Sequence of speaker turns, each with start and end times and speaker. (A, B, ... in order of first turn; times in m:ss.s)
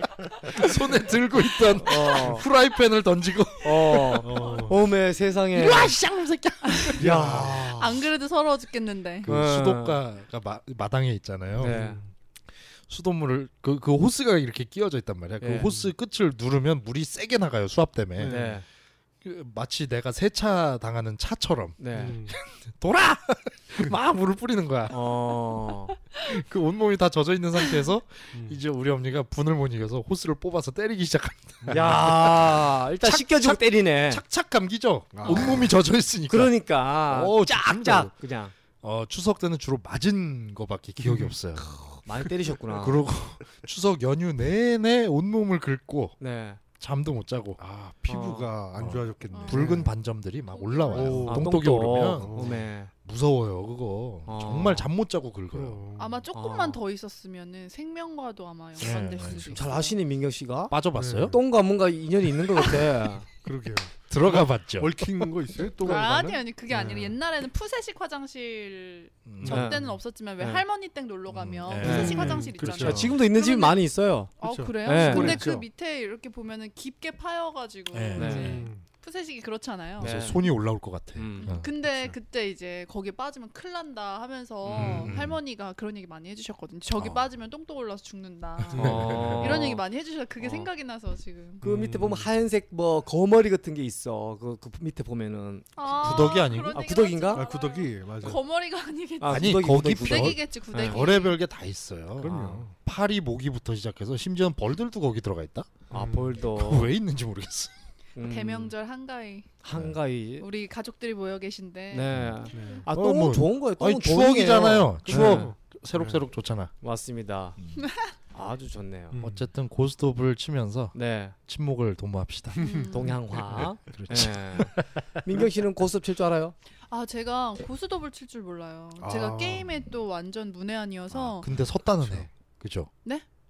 0:00.4-0:04.4 A
0:01.7-0:02.5 B
0:03.6-0:06.0 B
0:04.2-0:04.8 C
0:05.5-0:07.5 A
0:06.7-0:09.3 D
0:07.0-0:08.0 B
0:07.0-0:07.7 C
0:09.2-0:11.8 A
0:09.3-0:10.0 B
0:11.6-0:12.1 C
0:11.6-0:12.0 B
0:12.9-0:18.5 A
0:15.4-0:15.8 B
0:15.6-0:15.9 C
0:18.2-0:18.6 C
0:18.2-0:18.6 B
0:19.2-0:25.0 A
0:21.8-0:22.2 B
0:21.9-0:22.4 C
0:24.9-0:26.0 B
0:26.2-0:38.1 A
0:28.3-0:28.6 C
0:31.7-0:34.2 B
0:35.1-0:35.7 C
0:35.2-0:35.7 B
0:36.3-0:38.5 B
0:38.8-0:41.8 A
0:41.0-0:42.3 C
0:42.0-0:43.0 B
0:42.7-0:46.2 A
0:46.2-0:46.6 B
0:46.8-0:47.6 A
0:47.6-0:49.9 C
0:48.1-0:48.5 B
0:48.8-0:55.8 A
0:49.3-0:49.8 D
0:49.5-0:49.8 B
0:50.5-0:51.3 D
0:50.9-0:51.5 C
0:51.0-0:52.9 B
0:52.2-0:52.7 C
0:54.3-0:54.9 B
0:55.5-0:56.3 C
0:56.0-1:00.0 D
0:56.3-0:56.8 B
0:58.8-0:59.6 A
0:59.2-1:03.3 B
1:00.7-1:01.4 A
1:01.0-1:01.4 C
1:03.4-1:07.2 C
1:04.1-1:05.3 A
1:05.8-1:13.8 D
1:09.3-1:09.7 A
1:09.4-1:09.9 C
1:09.5-1:09.8 B
1:10.4-1:10.6 B
1:11.3-1:13.1 A
1:11.8-1:13.2 C
1:11.8-1:12.2 B
1:12.8-1:15.5 B
1:14.4-1:20.5 D
1:14.4-1:15.7 C
1:17.9-1:18.7 A
1:18.2-1:18.6 B
1:18.3-1:18.8 C
1:20.0-1:21.7 A
1:20.0-1:20.4 B
1:21.2-1:21.6 B
1:21.4-1:31.6 D
1:21.8-1:22.2 C
1:24.6-1:25.2 B
1:24.7-1:25.4 A
1:27.0-1:27.2 A
1:28.6-1:29.7 A
1:28.7-1:29.8 B
1:30.4-1:30.7 B
1:31.6-1:32.3 C
1:31.6-1:37.5 B
1:35.8-1:41.4 D
1:36.0-1:37.0 A
1:37.3-1:38.4 C
1:39.2-1:41.0 B
1:39.3-1:45.8 A
1:42.2-1:42.7 C
1:42.3-1:42.6 B
1:45.9-1:46.9 B
1:45.9-1:46.4 C
1:46.4-1:47.7 A
1:48.2-1:48.7 B
1:48.2-1:49.5 D
1:49.6-1:50.5 B
1:50.4-1:52.8 D
1:51.9-1:55.6 B
1:52.5-1:52.9 C
1:52.9-1:56.7 A
1:55.1-1:56.2 C
1:56.8-1:57.6 B
1:57.8-1:58.1 D
1:58.3-1:59.2 B
1:59.1-1:59.4 C
1:59.2-2:01.0 A
2:00.9-2:01.4 B
2:01.5-2:02.8 A
2:02.5-2:03.7 C
2:02.6-2:03.2 D
2:02.9-2:06.6 B
2:03.5-2:04.8 A
2:06.9-2:11.5 D
2:09.0-2:09.7 C
2:11.1-2:12.9 A